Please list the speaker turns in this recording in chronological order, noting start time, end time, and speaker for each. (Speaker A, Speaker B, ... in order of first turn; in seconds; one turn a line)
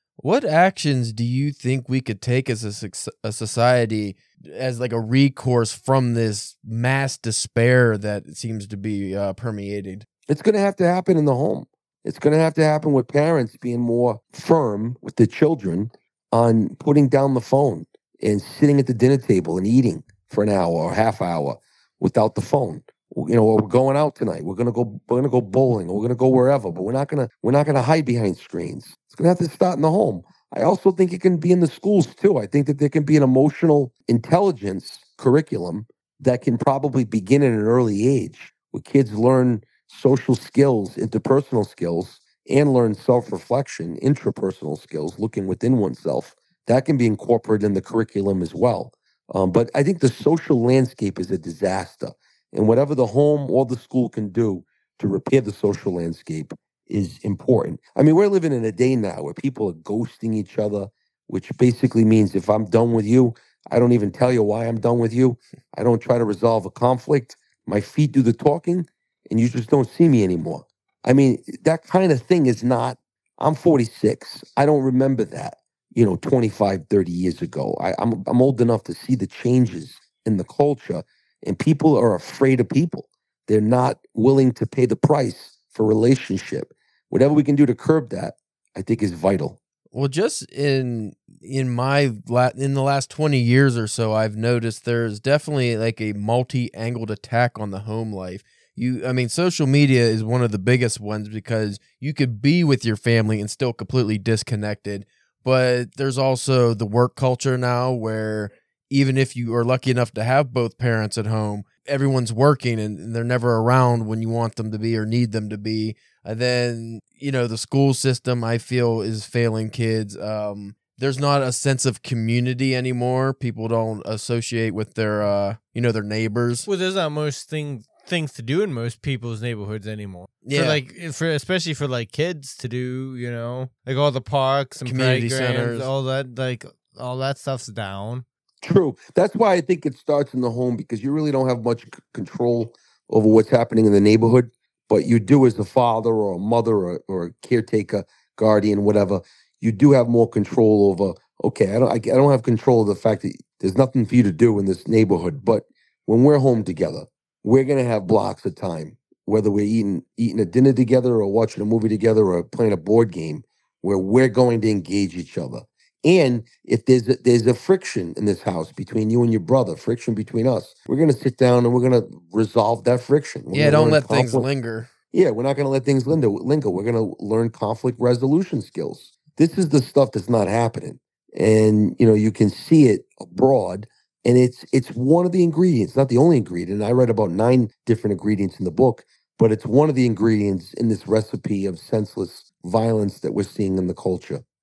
Speaker A: 0.2-10.1
Speaker B: 10.3-89.6
Speaker A: 89.9-126.7
Speaker C: 126.7-138.2
Speaker A: 130.4-130.8
Speaker A: 134.8-135.9
Speaker B: 138.6-174.5
Speaker A: 173.5-174.9
Speaker B: 175.1-194.4